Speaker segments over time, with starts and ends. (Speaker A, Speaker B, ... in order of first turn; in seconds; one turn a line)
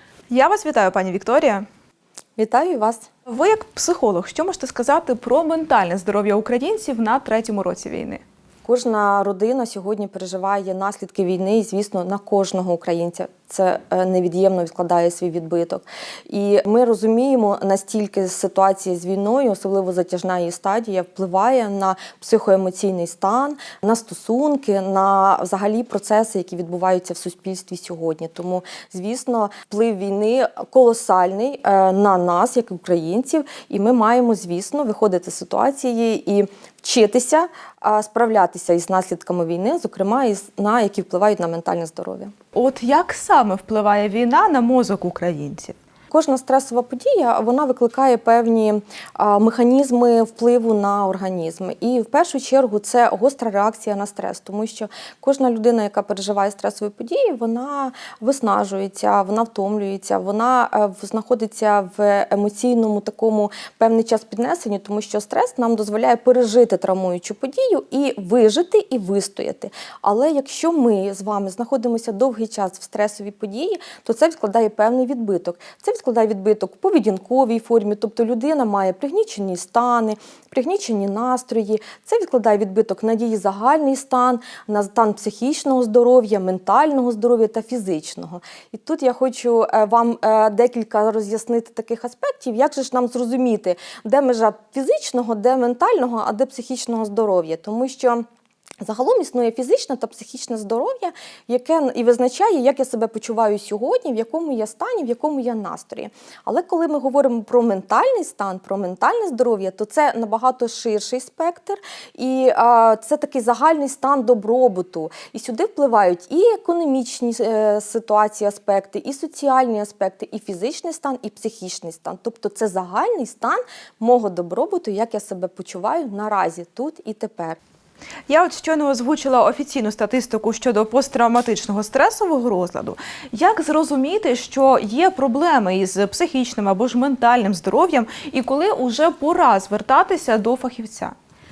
Speaker A: 0.3-1.6
Speaker B: 2.4-3.1
Speaker A: 3.3-8.2
Speaker B: 8.7-42.3
Speaker A: 42.5-45.8
Speaker B: 46.1-98.2
Speaker B: 98.8-127.6
Speaker A: 128.3-141.1